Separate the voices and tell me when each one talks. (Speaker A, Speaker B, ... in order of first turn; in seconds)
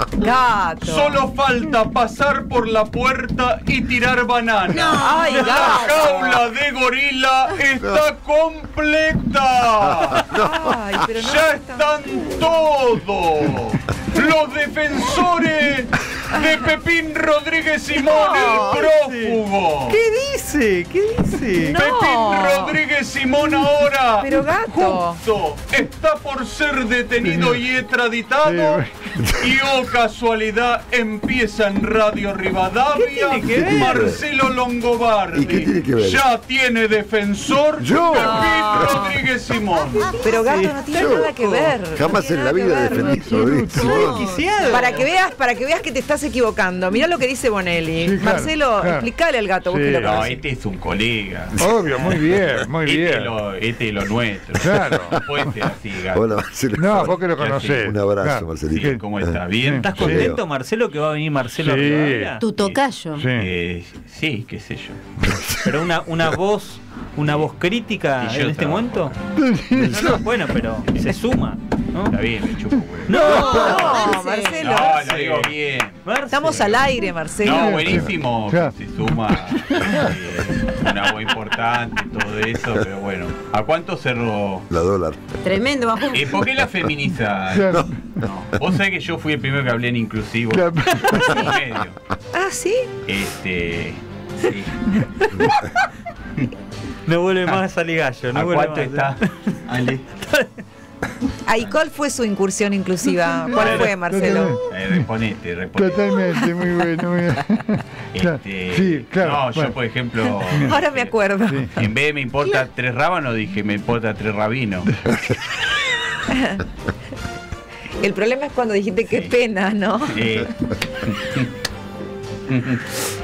Speaker A: 0.2-1.2, 5.0-6.4, 10.3-11.9, 18.0-18.8, 21.6-22.8, 24.2-25.2, 40.2-43.5, 44.7-50.4, 73.1-75.3, 76.3-77.8, 92.3-92.9, 101.5-104.6, 110.5-111.7, 116.3-116.6, 118.0-120.5
Speaker B: 0.9-10.2, 11.2-19.7, 21.8-24.1, 25.2-28.5, 29.4-40.1
Speaker C: 4.7-6.0, 42.9-44.9, 62.4-63.3, 73.2-74.9, 85.4-86.5
Speaker D: 5.3-5.9, 18.5-21.8, 32.9-34.0, 40.2-41.8, 43.3-45.1, 59.7-62.4, 65.6-69.2, 69.7-72.2, 73.1-73.8, 76.0-76.9, 97.1-99.3, 100.2-100.5, 103.6-103.9
Speaker E: 10.0-10.8, 29.2-29.7, 33.5-34.2, 35.3-36.3, 37.8-39.2, 40.9-41.4, 41.9-44.3, 51.7-52.1, 54.7-55.2, 56.1-59.4, 60.0-60.4, 65.2-66.2, 84.7-85.6, 91.0-91.3
Speaker F: 27.2-27.7, 28.4-29.1, 48.0-49.1, 49.7-50.3, 51.6-53.4, 54.6-55.2, 56.8-59.0, 59.6-60.1, 61.6-62.4, 63.2-63.5, 69.3-70.2, 77.4-78.8, 87.5-87.9, 103.6-105.0, 105.8-109.8, 110.5-110.8, 111.5-111.7
Speaker G: 33.4-34.1, 50.0-56.3, 57.3-57.8, 58.7-60.3, 62.5-62.8, 63.4-65.0, 68.2-69.1, 72.1-73.3, 74.1-76.8, 77.4-84.7, 86.1-92.0, 93.1-94.9, 98.3-100.1, 103.5-103.9, 104.7-106.4, 108.1-114.9, 119.1-119.3, 120.1-120.5, 121.0-121.5, 122.5-123.0